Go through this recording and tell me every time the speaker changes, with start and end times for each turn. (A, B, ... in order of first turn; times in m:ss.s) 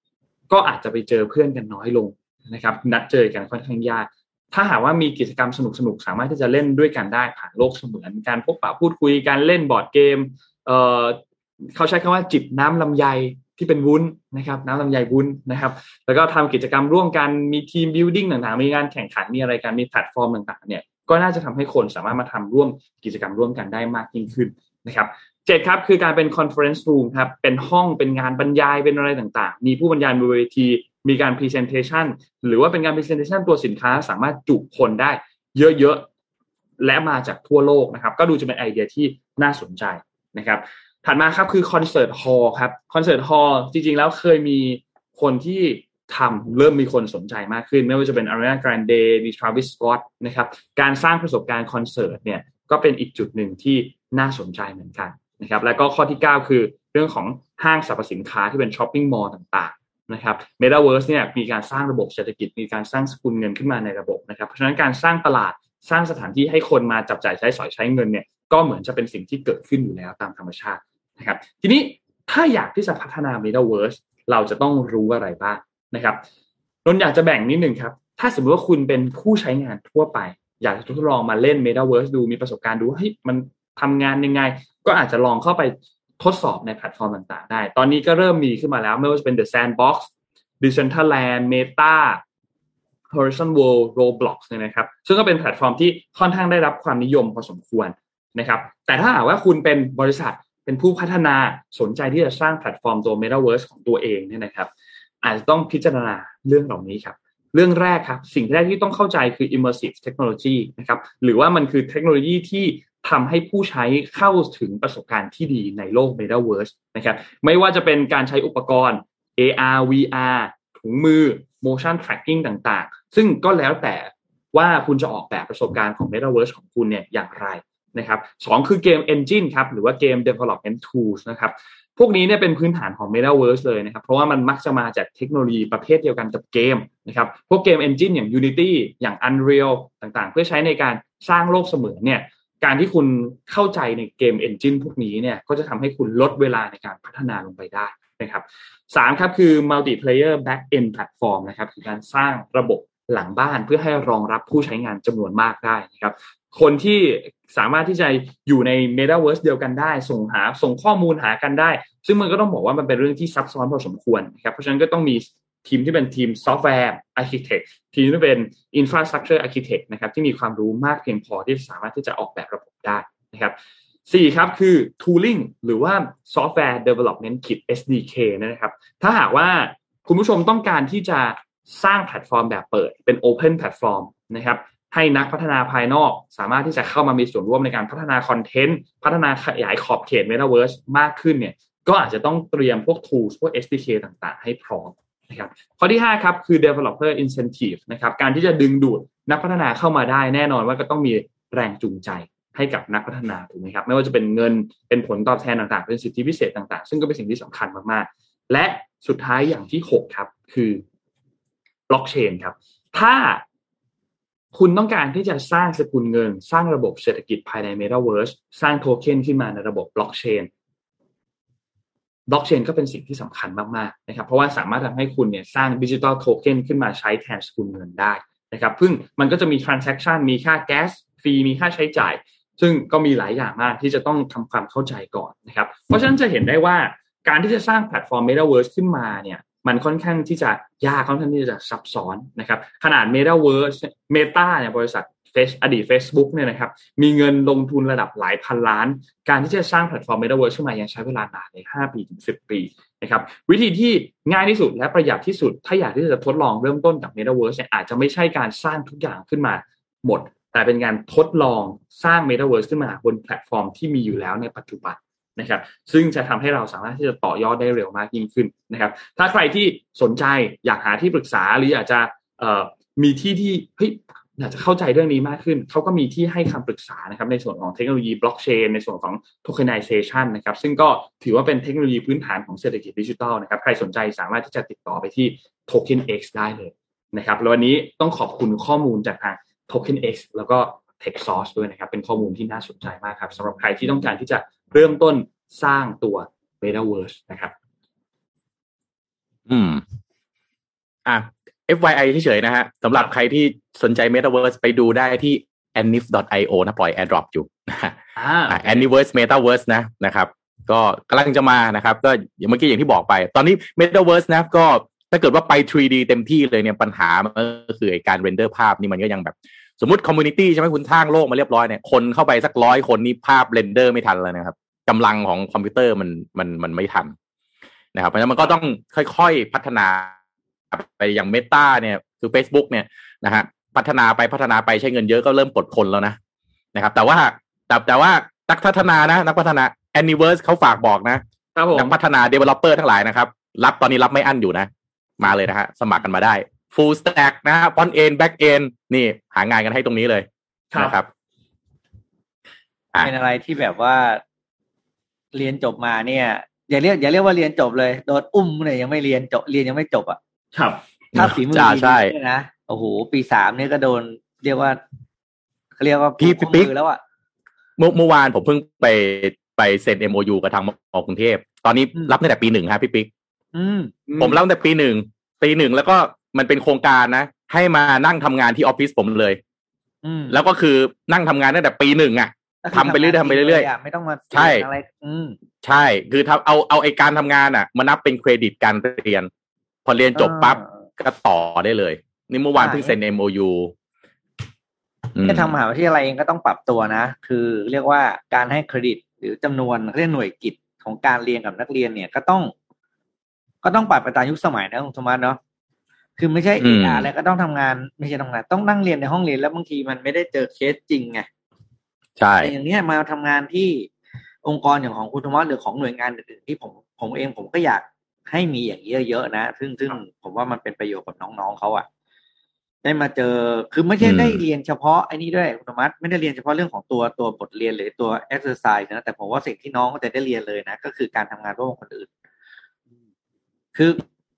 0:00.5-0:11.2 A
0:11.7-0:36.1 A
0:36.8-1:16.2 A
1:16.8-1:32.2 A
1:33.1-1:44.7 A
1:45.2-2:53.6 A
2:54.1-3:30.8 A
3:31.9-3:33.4 A
3:34.5-3:40.5 A
3:42.3-4:57.5 A
4:59.5-4:59.8 B
5:01.1-5:08.0 B
5:08.2-5:08.9 A
5:08.5-5:27.1 B
5:28.0-5:30.2 B
5:30.7-5:36.2 B
5:36.8-5:41.2 B
5:41.6-5:42.0 A
5:41.7-5:51.1 B
5:53.0-5:54.2 C
5:55.3-6:00.2 C
6:00.6-6:00.8 A
6:01.2-6:04.8 C
6:01.2-6:02.1 B
6:05.8-6:07.0 C
6:06.2-6:06.7 B
6:07.8-6:13.1 B
6:13.5-6:13.9 C
6:14.1-6:14.4 A
6:14.2-6:19.4 B
6:20.0-6:20.4 C
6:20.3-6:23.7 B
6:22.6-6:25.4 C
6:24.3-6:24.6 B
6:25.6-6:29.3 B
6:29.8-6:33.7 B
6:30.2-6:30.7 C
6:32.6-6:32.9 C
6:35.2-6:35.5 B
6:35.2-6:42.5 C
6:43.6-6:45.4 C
6:46.2-6:51.3 C
6:46.6-6:47.1 B
6:52.2-6:52.5 B
6:52.4-6:53.9 C
6:54.4-7:01.9 C
7:02.8-7:12.1 C
7:04.0-7:04.4 B
7:13.8-7:14.0 C